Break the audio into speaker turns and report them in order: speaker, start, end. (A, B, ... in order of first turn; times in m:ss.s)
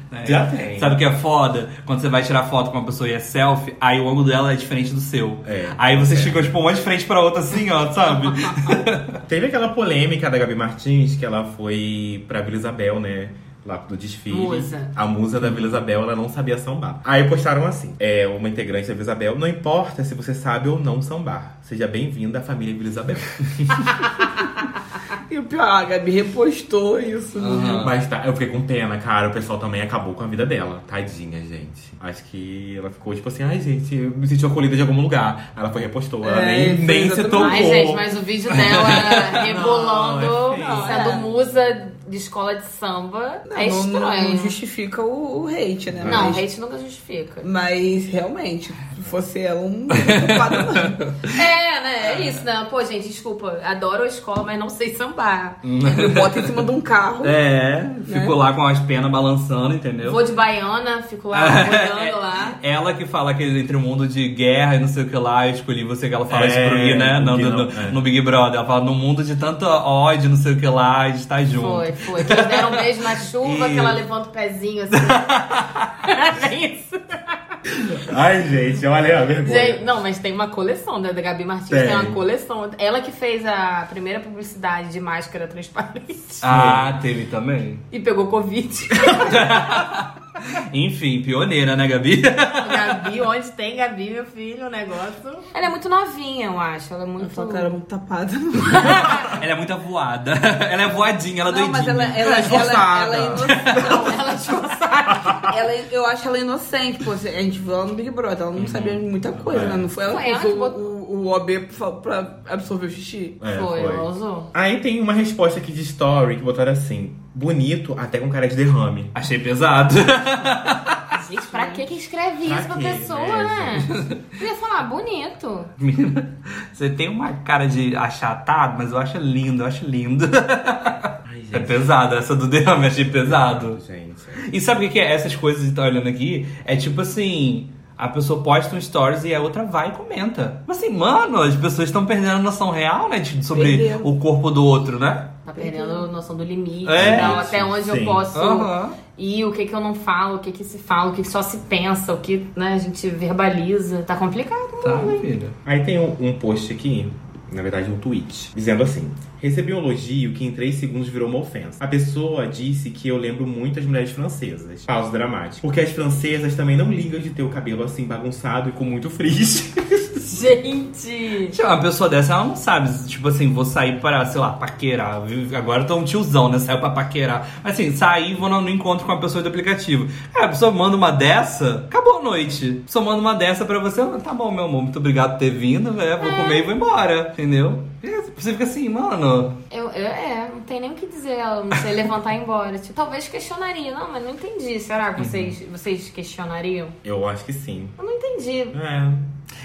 0:00.1-0:09.2 A
0:00.2-0:01.0 B
0:05.4-0:06.5 B
0:09.3-0:23.4 B
0:14.3-0:14.9 C
0:25.3-0:27.9 D
0:27.4-0:28.0 A
0:27.8-0:38.0 B
0:36.2-0:37.8 D
0:37.4-0:44.6 C
0:38.6-0:39.3 A
0:39.4-0:41.1 B
0:40.5-0:41.3 D
0:43.5-0:46.4 D
0:45.9-0:46.3 B
0:46.1-0:47.5 C
0:47.4-0:51.0 D
0:50.0-0:51.2 A
0:51.3-0:55.6 C
0:55.6-0:56.6 A
0:55.8-0:57.4 D
0:57.2-1:00.2 A
0:58.1-0:58.4 D
1:00.0-1:02.6 C
1:01.3-1:12.8 A
1:06.3-1:08.0 B
1:11.5-1:15.4 C
1:13.4-1:14.0 B
1:15.0-1:15.9 A
1:16.0-1:17.4 C
1:17.8-1:19.8 B
1:19.4-1:26.5 C
1:21.7-1:22.2 B
1:26.4-1:27.8 A
1:26.4-1:26.9 B
1:27.9-1:29.8 C
1:29.2-1:33.0 A
1:32.6-1:37.8 C
1:37.2-1:39.3 D
1:38.7-1:39.4 C
1:39.3-1:43.9 A
1:41.5-1:44.2 D
1:42.2-1:43.8 B
1:43.7-1:45.5 C
1:45.5-1:53.4 D
1:48.6-1:49.0 A
1:49.4-1:50.0 B
1:50.0-1:50.8 C
1:53.4-1:59.1 B
1:53.5-1:54.5 C
1:59.2-2:01.0 A
2:01.1-2:05.7 C
2:01.5-2:01.8 D
2:02.4-2:04.0 B
2:03.9-2:04.2 A
2:05.8-2:13.8 A
2:11.2-2:11.9 B
2:13.1-2:14.4 B
2:14.4-2:25.3 A
2:23.5-2:24.1 D
2:25.5-2:35.3 C
2:25.6-2:26.1 D
2:26.9-2:27.5 A
2:27.0-2:28.2 B
2:28.3-2:29.0 A
2:34.8-2:35.6 A
2:35.6-2:50.3 B
2:50.3-2:51.6 C
2:51.5-3:09.6 A
3:06.2-3:06.7 C
3:09.7-3:17.0 C
3:15.2-3:15.5 A
3:17.0-3:18.0 B
3:18.0-3:18.8 C
3:18.7-3:19.3 B